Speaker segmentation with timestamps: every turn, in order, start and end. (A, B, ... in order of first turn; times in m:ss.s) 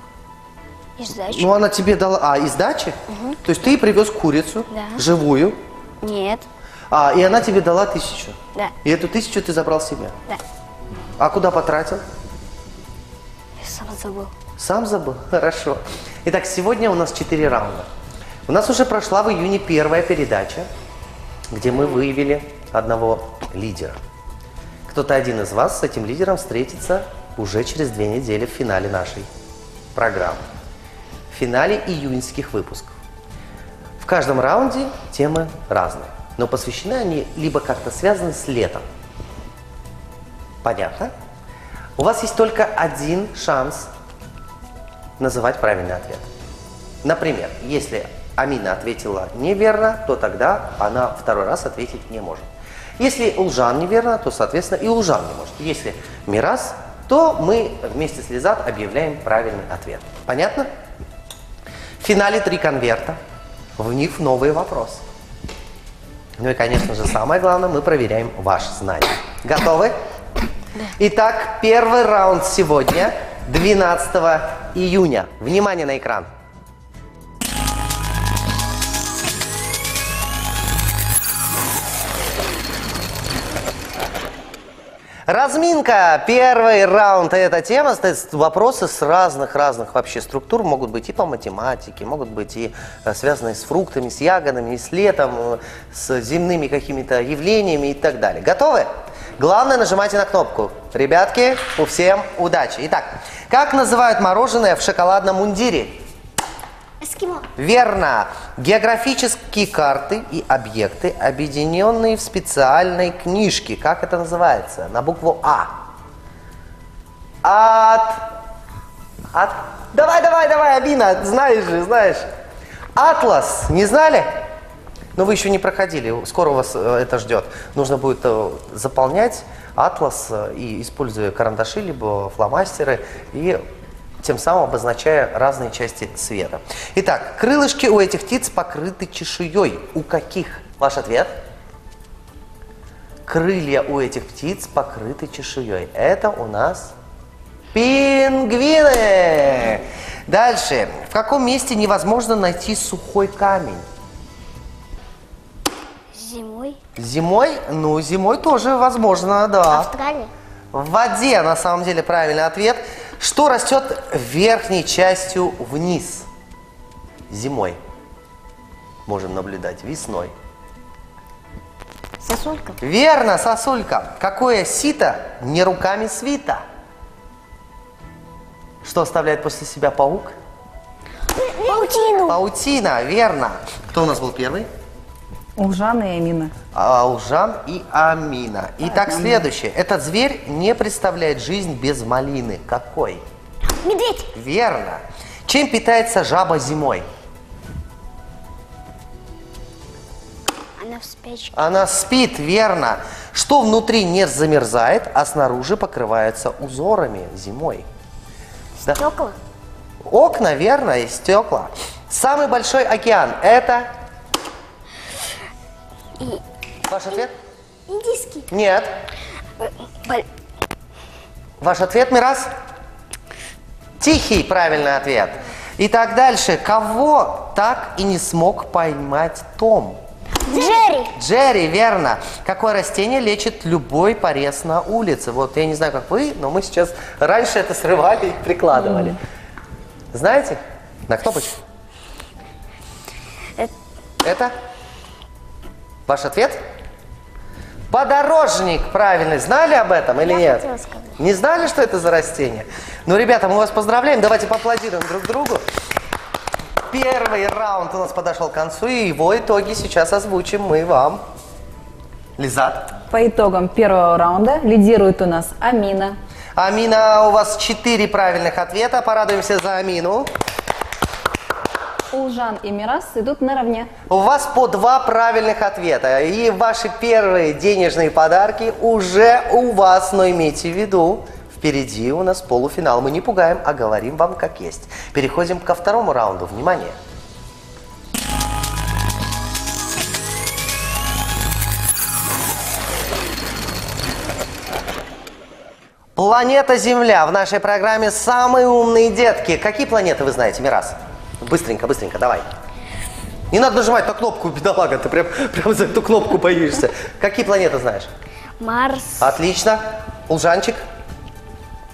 0:01.0-0:01.5 A
0:01.3-0:05.6 B
0:03.1-0:03.4 A
0:04.7-0:05.0 A
0:06.0-0:06.5 A
0:06.9-0:10.1 B
0:11.2-0:12.0 B
0:13.6-0:14.3 A
0:14.6-0:17.9 B
0:18.5-0:20.7 B
0:21.5-0:24.0 B
0:24.9-0:29.3 B
0:29.9-0:30.4 B
0:31.3-0:32.9 B
0:34.0-0:38.8 B
0:40.6-0:41.1 B
0:42.0-0:43.9 B
0:45.2-0:46.3 B
0:47.0-0:52.5 B
0:53.0-1:00.7 B
1:02.0-1:03.2 B
1:03.8-1:05.0 B
1:06.4-1:10.0 B
1:10.8-1:16.3 B
1:25.3-1:46.0 B
1:47.0-1:47.5 C
1:47.6-1:55.7 B
1:57.4-1:58.2 B
1:59.3-2:02.2 B
2:03.0-2:04.3 B
2:05.1-2:13.6 B
2:14.2-2:21.4 B
2:23.2-2:26.9 B
2:27.7-2:33.8 B
2:36.1-2:36.8 A
2:37.0-2:39.9 B
2:39.7-2:40.3 C
2:40.7-2:46.3 B
2:47.3-2:47.8 B
2:49.1-2:50.3 B
2:52.2-2:52.7 C
2:52.8-2:56.6 B
2:58.8-3:00.3 B
3:01.3-3:02.3 C
3:01.6-3:02.4 A
3:02.3-3:04.7 B
3:05.6-3:06.5 D
3:06.7-3:13.2 B
3:08.8-3:09.5 D
3:13.6-3:14.3 C
3:14.3-3:17.0 B
3:20.8-3:21.6 A
3:21.5-3:27.8 B
3:28.9-3:29.4 C
3:30.0-3:33.9 B
3:36.9-3:37.3 B
3:37.9-3:38.5 C
3:38.5-3:38.9 B
3:39.6-3:40.2 A
3:41.6-3:42.5 B
3:44.0-3:50.0 B
3:50.5-3:51.1 C
3:51.1-3:59.2 B
4:00.1-4:01.6 B
4:04.2-4:04.5 B
4:06.1-4:06.6 B
4:07.9-4:10.6 B
4:10.2-4:11.2 C
4:11.2-4:15.6 B
4:16.9-4:21.2 B
4:22.4-4:22.9 B
4:23.1-4:26.2 D
4:26.6-4:30.3 B
4:32.1-4:33.9 D
4:34.1-4:47.0 B
4:56.2-5:02.5 B
5:03.5-5:08.1 B
5:08.6-5:09.3 A
5:09.2-5:10.8 B